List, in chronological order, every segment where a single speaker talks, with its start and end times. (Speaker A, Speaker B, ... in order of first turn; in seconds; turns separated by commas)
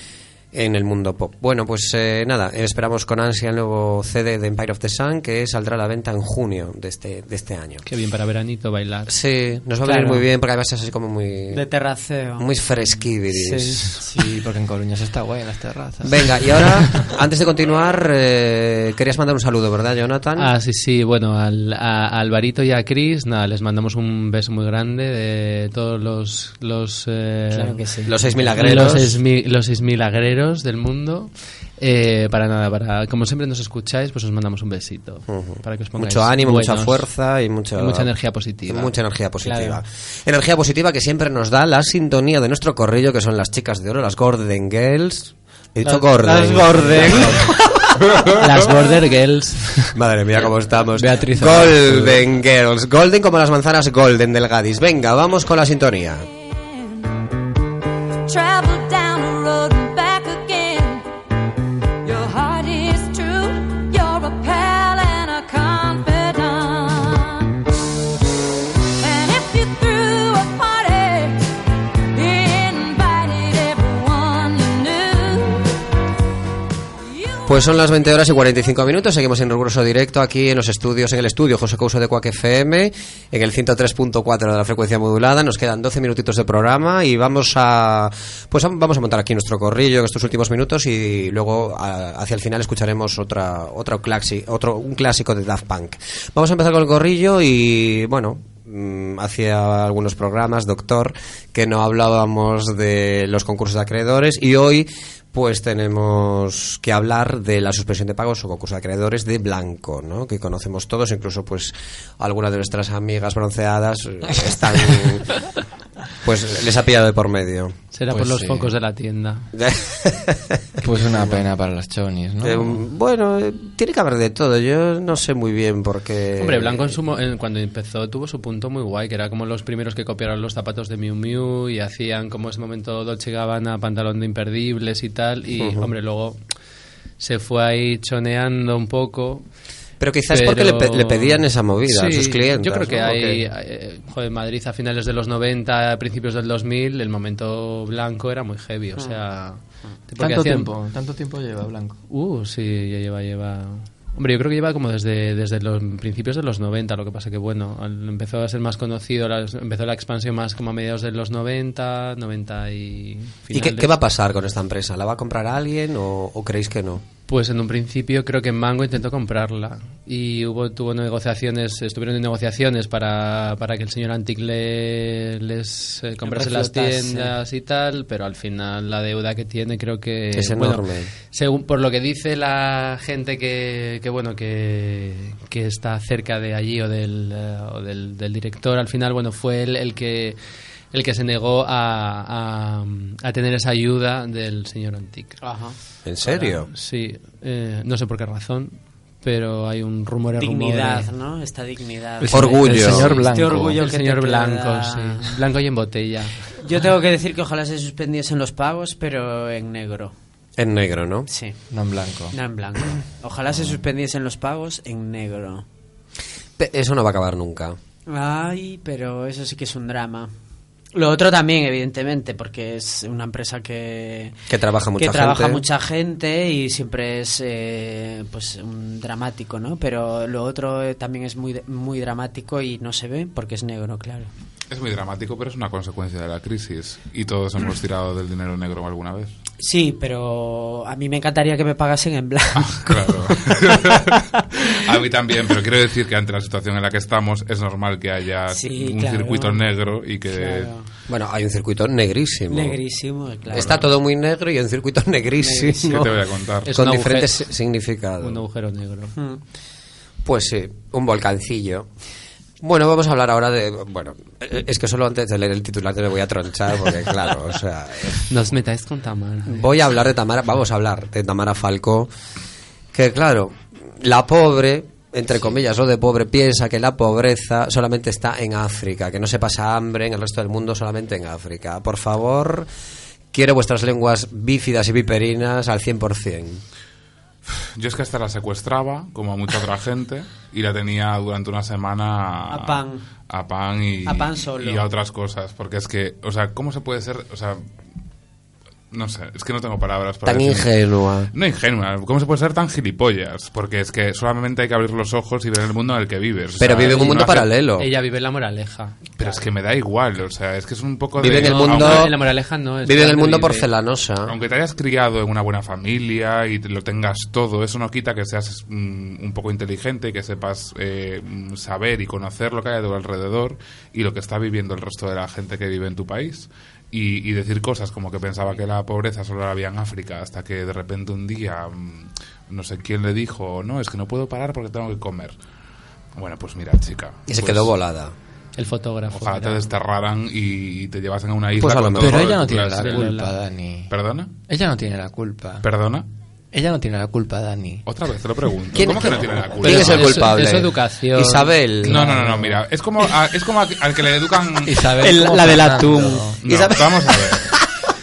Speaker A: 0.5-7.8, Speaker B: 7.8-9.1, Speaker A: 9.1-11.6, Speaker C: 9.8-10.2, Speaker C: 11.5-12.4, Speaker A: 12.4-13.9, Speaker C: 13.3-13.9, Speaker D: 14.0-17.1, Speaker A: 16.1-20.5, Speaker B: 20.4-27.8, Speaker C: 27.5-28.8, Speaker A: 28.1-29.2, Speaker B: 28.5-37.1, Speaker A: 35.3-38.1, Speaker B: 37.8-38.9, Speaker A: 38.6-47.5, Speaker C: 39.4-39.8, Speaker C: 45.8-47.6, Speaker B: 46.9-47.3, Speaker B: 48.4-49.9, Speaker A: 49.9-56.3, Speaker D: 50.9-52.2, Speaker E: 56.4-57.3, Speaker E: 58.3-61.0, Speaker E: 62.0-67.5, Speaker E: 69.0-71.5, Speaker E: 72.1-75.8, Speaker E: 77.2-77.6, Speaker A: 77.5-115.5, Speaker A: 116.2-117.7, Speaker B: 117.9-119.5, Speaker D: 118.1-118.7, Speaker A: 119.5-120.7, Speaker D: 120.8-122.8, Speaker A: 122.4-127.0, Speaker B: 126.4-136.4, Speaker A: 135.6-135.9, Speaker B: 137.2-139.4, Speaker A: 140.0-143.4, Speaker B: 140.3-150.7, Speaker D: 150.2-152.0, Speaker B: 152.1-163.9, Speaker A: 163.5-167.0, Speaker B: 167.3-190.4, Speaker C: 176.2-177.3, Speaker A: 180.3-181.1, Speaker B: 190.9-195.4, Speaker C: 195.4-196.5, Speaker A: 196.0-196.7, Speaker B: 196.7-201.1, Speaker C: 200.4-205.4, Speaker D: 202.2-203.8, Speaker A: 202.3-203.1, Speaker B: 203.8-206.6, Speaker C: 206.6-210.1, Speaker A: 210.6-211.3, Speaker C: 211.3-211.6, Speaker D: 211.7-212.3, Speaker C: 212.3-215.6, Speaker A: 216.6-217.8, Speaker C: 218.1-220.3, Speaker C: 220.9-224.3, Speaker A: 224.5-225.6, Speaker C: 225.0-234.3, Speaker F: 234.7-239.3, Speaker C: 239.6-243.1, Speaker F: 242.6-250.7, Speaker C: 248.5-249.6, Speaker C: 250.3-250.8, Speaker A: 251.1-252.8, Speaker C: 252.5-253.8, Speaker A: 253.5-256.1, Speaker F: 253.5-253.8, Speaker C: 255.4-256.0, Speaker F: 255.9-256.7, Speaker B: 256.6-257.5, Speaker A: 256.7-258.4, Speaker B: 258.2-259.1, Speaker C: 259.1-259.4, Speaker A: 260.2-261.9, Speaker A: 262.6-268.3, Speaker B: 268.3-269.7, Speaker A: 269.4-272.1, Speaker A: 272.9-282.7, Speaker A: 283.3-286.6, Speaker F: 287.5-297.6, Speaker C: 292.5-293.0, Speaker C: 294.1-294.8, Speaker F: 298.9-300.7, Speaker A: 300.2-301.3, Speaker F: 301.3-307.5, Speaker A: 306.6-307.9, Speaker B: 306.9-307.2, Speaker B: 307.8-309.0, Speaker F: 309.2-312.1, Speaker A: 311.2-312.3, Speaker B: 311.2-313.7, Speaker A: 312.8-314.3, Speaker F: 314.3-335.3, Speaker F: 336.1-337.7, Speaker A: 337.3-338.1, Speaker B: 338.6-339.7, Speaker F: 339.1-343.2, Speaker A: 341.6-342.4, Speaker D: 342.0-343.9, Speaker B: 342.8-343.3, Speaker F: 343.9-344.3, Speaker D: 344.5-345.6, Speaker F: 345.6-346.1, Speaker D: 346.5-347.8, Speaker F: 347.9-350.3, Speaker A: 348.7-352.3, Speaker B: 349.6-351.6, Speaker D: 351.8-352.5, Speaker F: 351.8-354.9, Speaker D: 354.6-356.4, Speaker C: 355.0-356.3, Speaker F: 356.4-357.6, Speaker A: 356.4-357.6